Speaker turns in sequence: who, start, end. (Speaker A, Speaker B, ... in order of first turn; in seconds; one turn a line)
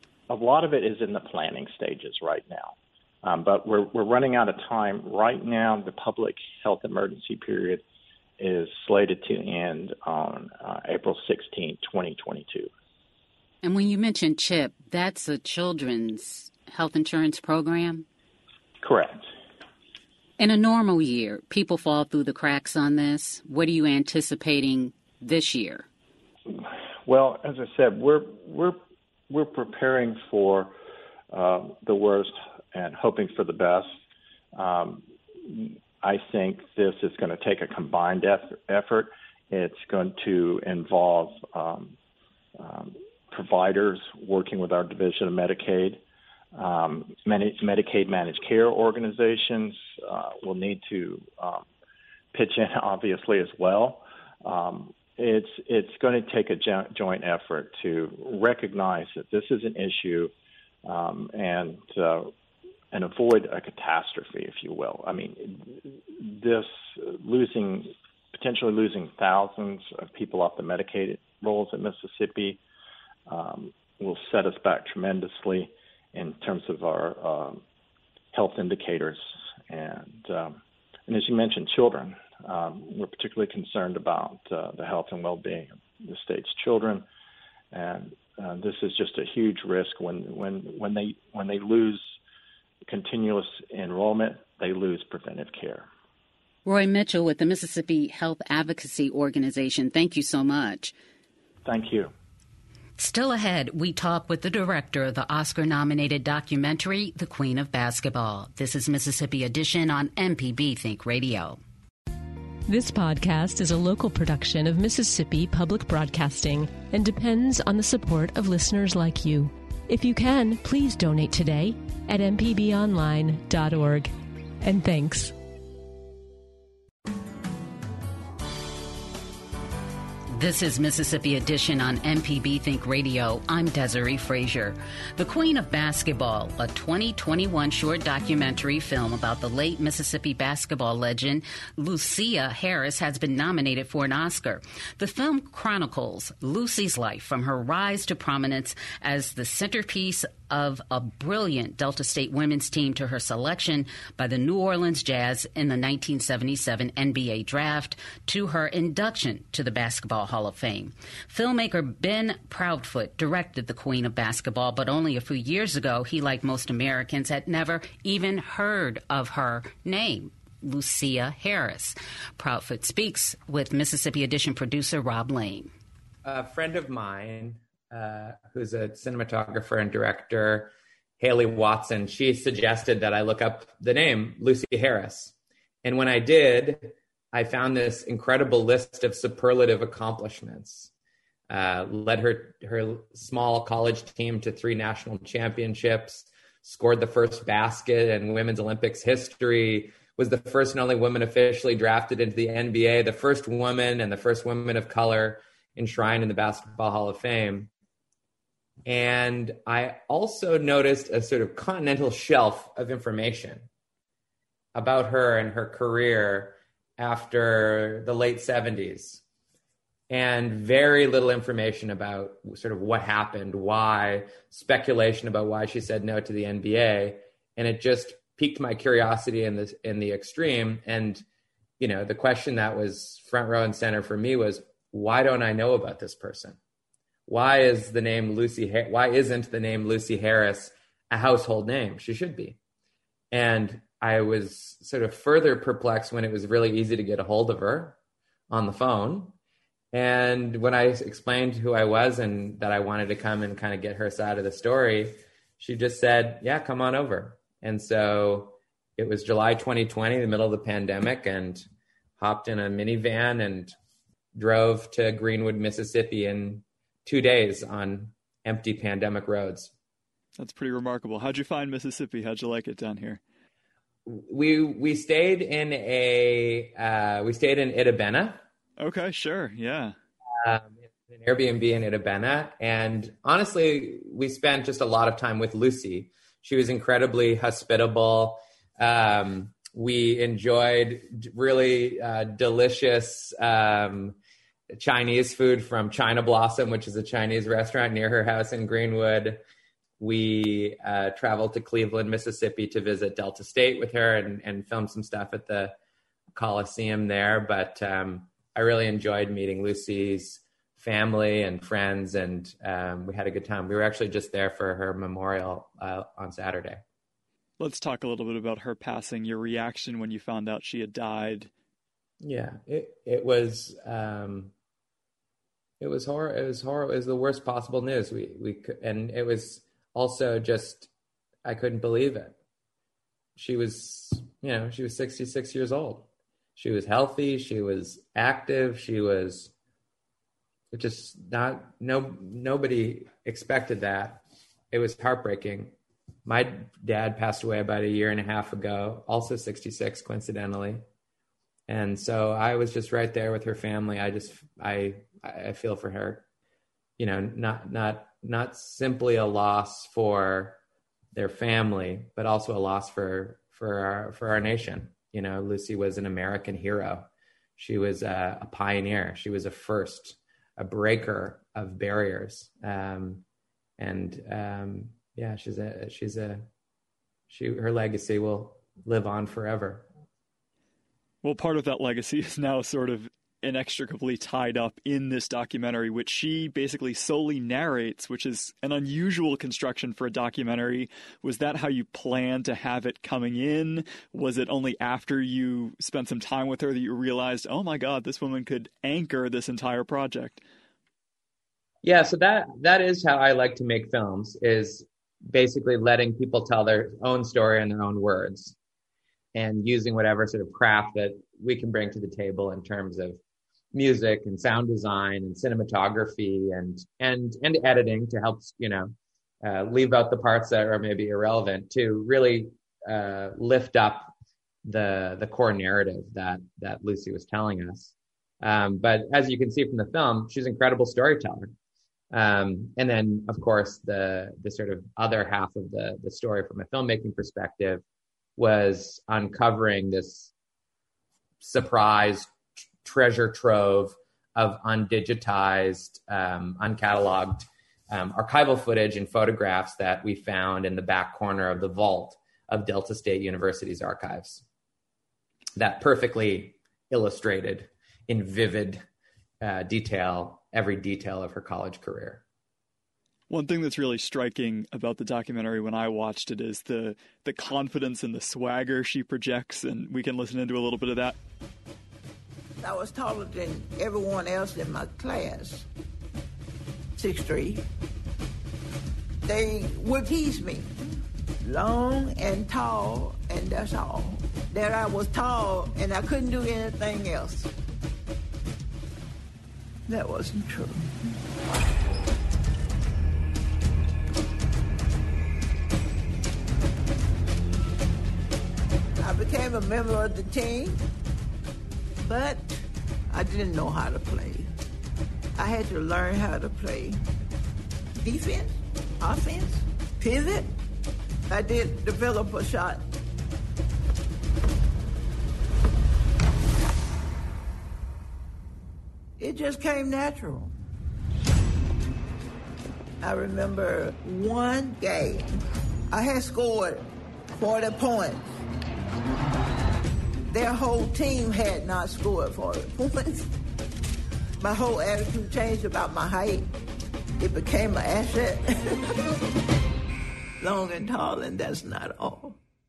Speaker A: 0.3-7.8
Speaker A: 8.4-12.7
Speaker B: 13.6-18.0
Speaker A: 18.8-19.3
Speaker B: 20.4-25.9
Speaker A: 26.5-28.8
Speaker A: 29.3-30.7
Speaker A: 31.3-34.0
Speaker A: 34.5-42.0
Speaker A: 42.6-46.0
Speaker A: 46.5-51.6
Speaker A: 52.3-60.3
Speaker A: 60.9-62.3
Speaker A: 62.9-72.6
Speaker A: 73.3-77.6
Speaker A: 78.3-87.0
Speaker A: 87.7-92.2
Speaker A: 92.9-95.9
Speaker B: 96.7-100.9
Speaker A: 101.6-102.1
Speaker B: 103.0-111.6
Speaker C: 112.7-125.3
Speaker B: 130.3-175.7
Speaker D: 176.2-190.9
Speaker D: 191.5-207.7
Speaker D: 208.9-213.7
Speaker D: 214.8-219.2
Speaker D: 220.1-231.2
Speaker D: 231.8-236.6
Speaker D: 237.3-242.6
Speaker D: 243.3-248.0
Speaker D: 248.5-249.3
Speaker D: 249.9-261.6
Speaker D: 262.2-263.7
Speaker D: 264.4-269.7
Speaker E: 270.4-273.2
Speaker D: 274.1-278.4
Speaker E: 278.8-279.9
Speaker D: 280.4-294.2
Speaker D: 294.7-299.4
Speaker D: 300.0-305.8
Speaker D: 306.3-316.8
Speaker E: 317.6-321.5
Speaker D: 322.2-324.5
Speaker D: 325.8-330.9
Speaker D: 331.4-332.4
Speaker D: 333.4-339.5
Speaker D: 340.7-345.7
Speaker D: 346.2-350.8
Speaker D: 351.7-356.2
Speaker D: 357.0-360.6
Speaker D: 361.1-373.2
Speaker D: 373.8-376.5
Speaker D: 377.3-379.9
Speaker E: 381.2-400.4
Speaker D: 401.8-408.6
Speaker D: 409.3-413.2
Speaker D: 413.7-424.1
Speaker D: 424.6-431.5
Speaker D: 432.1-437.8
Speaker D: 438.4-440.3
Speaker D: 441.4-442.3
Speaker D: 442.8-454.4
Speaker D: 455.6-458.8
Speaker D: 459.4-462.2
Speaker E: 463.3-471.2
Speaker F: 472.6-475.7
Speaker F: 476.9-477.6
Speaker F: 479.2-480.7
Speaker F: 481.4-487.5
Speaker F: 489.9-491.2
Speaker F: 499.0-500.8
Speaker F: 502.0-504.5
Speaker F: 505.4-507.1
Speaker F: 508.0-510.6
Speaker F: 511.3-512.9
Speaker F: 519.2-520.5
Speaker F: 523.0-525.4
Speaker F: 525.9-528.4
Speaker F: 530.3-533.3
Speaker F: 534.4-536.5
Speaker F: 537.2-539.0
Speaker F: 540.4-542.4